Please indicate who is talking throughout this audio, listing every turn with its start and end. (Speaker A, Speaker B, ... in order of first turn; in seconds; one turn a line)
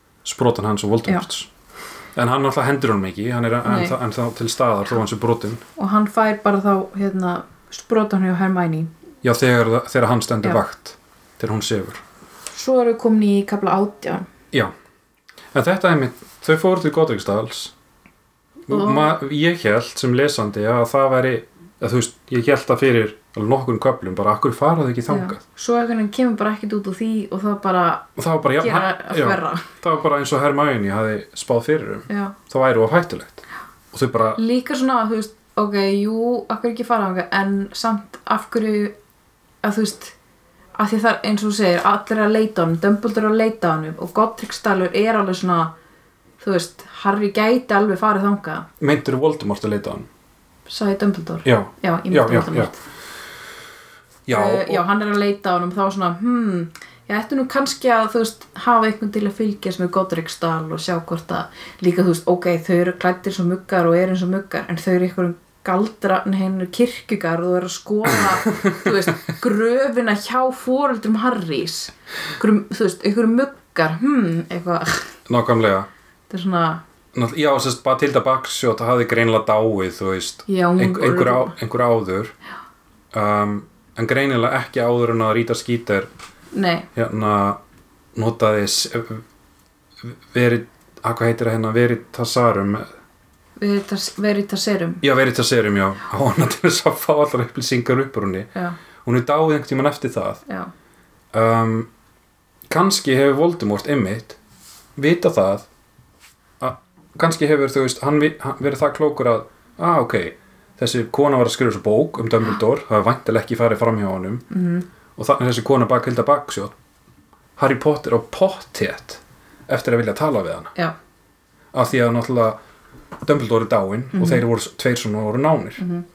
Speaker A: 0.2-1.5
Speaker A: 2.1-5.6
Speaker B: 3.6-4.0
Speaker B: 5.8-8.9
Speaker A: 9.2-12.0
Speaker B: 12.5-14.3
Speaker A: 15.5-17.7
Speaker A: 18.7-25.4
Speaker B: 18.7-19.1
Speaker B: 25.1-29.7
Speaker A: 28.2-34.4
Speaker B: 32.1-32.4
Speaker B: 34.4-39.0
Speaker B: 39.6-40.1
Speaker B: 40.8-45.7
Speaker B: 46.4-48.7
Speaker A: 48.8-50.1
Speaker B: 50.7-52.8
Speaker A: 51.5-52.7
Speaker A: 54.3-54.8
Speaker B: 54.3-75.1
Speaker A: 68.2-69.0
Speaker A: 75.3-75.9
Speaker B: 76.3-76.8
Speaker A: 77.1-82.3
Speaker B: 80.5-81.5
Speaker A: 83.1-86.1
Speaker B: 86.5-86.9
Speaker A: 87.0-87.6
Speaker A: 88.2-89.2
Speaker A: 90.0-92.9
Speaker B: 93.6-95.0
Speaker A: 95.0-98.5
Speaker A: 99.0-100.4
Speaker A: 101.3-101.9
Speaker A: 102.7-104.4
Speaker A: 105.0-105.7
Speaker A: 106.6-114.5
Speaker B: 114.5-114.8
Speaker A: 115.2-116.7
Speaker A: 117.6-120.7
Speaker A: 121.7-122.6
Speaker A: 123.2-125.8
Speaker B: 124.1-124.4
Speaker B: 125.8-126.0